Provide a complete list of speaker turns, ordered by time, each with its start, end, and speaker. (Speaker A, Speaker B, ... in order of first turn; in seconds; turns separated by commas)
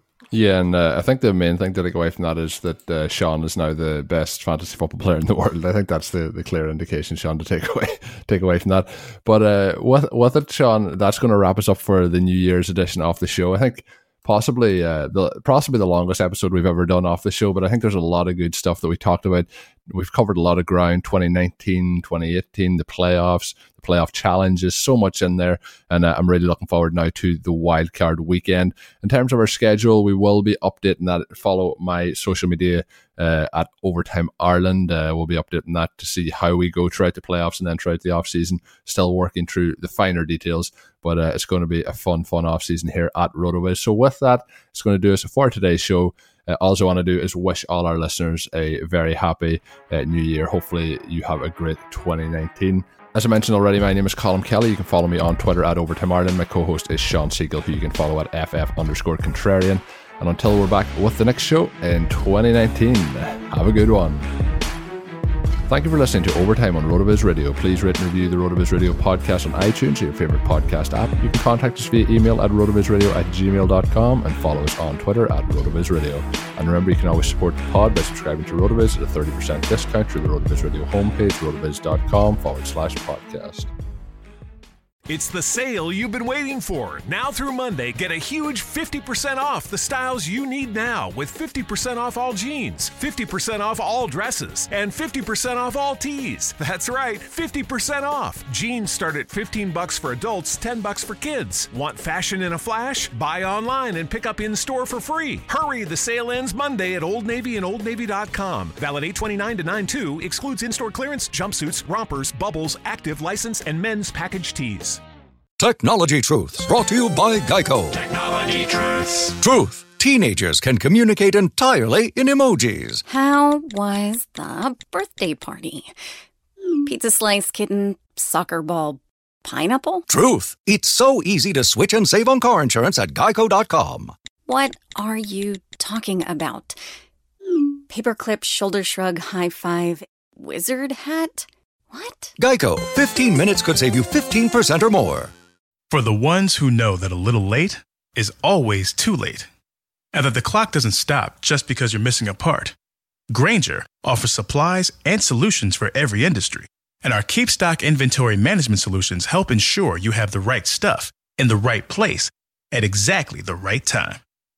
Speaker A: 0.3-64.3, Speaker A: 65.7-83.7, Speaker B: 85.1-115.0, Speaker C: 115.6-123.0, Speaker B: 118.3-119.3, Speaker D: 123.1-125.9, Speaker D: 126.8-130.1, Speaker C: 130.1-134.1, Speaker D: 134.5-136.8, Speaker D: 137.9-142.3, Speaker C: 142.4-145.3, Speaker E: 145.9-149.5, Speaker E: 150.1-152.8, Speaker E: 153.3-164.2